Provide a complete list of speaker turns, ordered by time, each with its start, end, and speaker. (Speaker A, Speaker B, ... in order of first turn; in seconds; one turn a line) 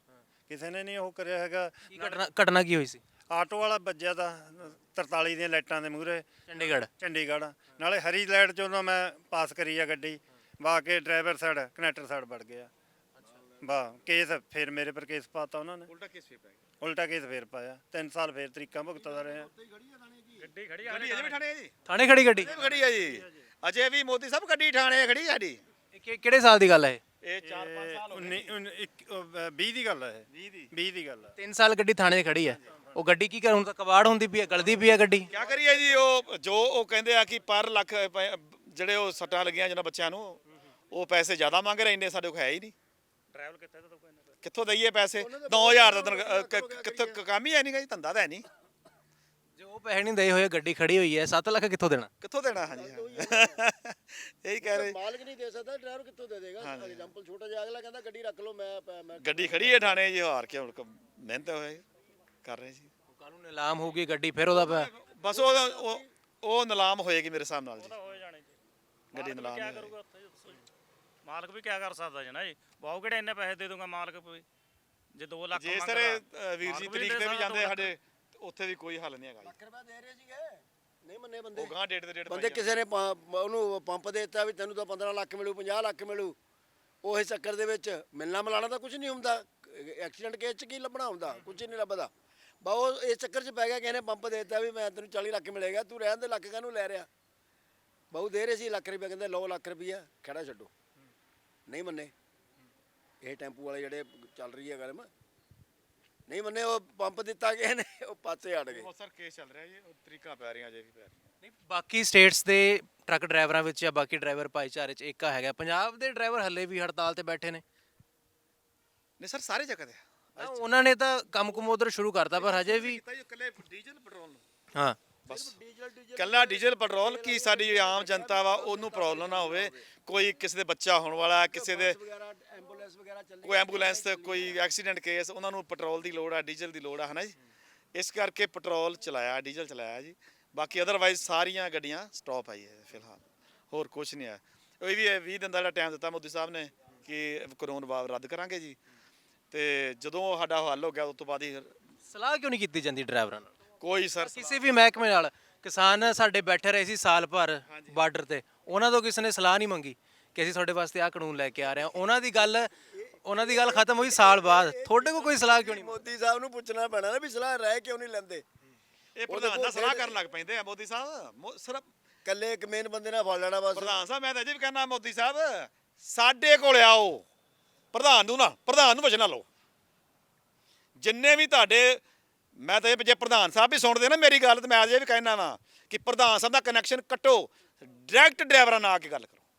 Speaker A: 0.5-2.2
Speaker B: 1.9-3.0
Speaker A: 3.3-6.3
Speaker B: 6.5-6.9
Speaker A: 6.9-12.7
Speaker A: 13.6-15.9
Speaker C: 15.9-16.6
Speaker A: 16.8-19.5
Speaker D: 18.9-20.5
Speaker E: 20.4-21.4
Speaker C: 20.8-21.7
Speaker B: 21.9-22.5
Speaker A: 22.4-23.4
Speaker C: 22.4-25.6
Speaker B: 25.9-27.0
Speaker C: 27.2-28.6
Speaker A: 27.4-31.3
Speaker C: 30.3-30.7
Speaker B: 31.4-35.3
Speaker A: 32.5-33.0
Speaker D: 35.3-36.0
Speaker C: 35.3-42.7
Speaker E: 43.3-44.3
Speaker C: 44.4-48.4
Speaker D: 45.2-47.2
Speaker B: 49.6-52.1
Speaker C: 52.2-55.0
Speaker D: 52.7-53.6
Speaker D: 54.6-60.0
Speaker C: 56.6-57.1
Speaker C: 59.2-61.8
Speaker C: 62.4-62.9
Speaker B: 63.1-64.9
Speaker C: 64.5-67.9
Speaker D: 65.2-66.1
Speaker E: 67.8-68.6
Speaker E: 69.1-70.6
Speaker C: 69.1-69.9
Speaker E: 71.2-74.4
Speaker E: 75.1-77.9
Speaker C: 75.5-79.5
Speaker D: 79.4-81.7
Speaker C: 81.5-82.7
Speaker D: 82.3-86.4
Speaker D: 87.0-92.1
Speaker D: 92.6-97.1
Speaker D: 98.1-100.7
Speaker D: 101.7-102.1
Speaker D: 103.2-105.1
Speaker D: 106.3-108.9
Speaker C: 108.7-111.2
Speaker B: 111.4-117.6
Speaker C: 119.2-120.6
Speaker B: 120.4-123.0
Speaker C: 122.3-124.4
Speaker C: 125.2-125.5
Speaker D: 125.3-129.9
Speaker C: 126.2-132.0
Speaker D: 131.5-134.6
Speaker C: 133.4-137.3
Speaker C: 137.9-148.8
Speaker C: 149.5-151.7
Speaker B: 152.1-153.5
Speaker C: 153.8-154.6
Speaker B: 154.2-162.7
Speaker C: 157.7-158.0
Speaker D: 162.4-168.4
Speaker B: 163.2-166.0
Speaker C: 169.2-171.9
Speaker D: 169.3-170.2
Speaker D: 172.2-174.0
Speaker C: 173.7-177.2
Speaker C: 177.9-179.5
Speaker C: 181.0-182.0
Speaker C: 182.6-189.4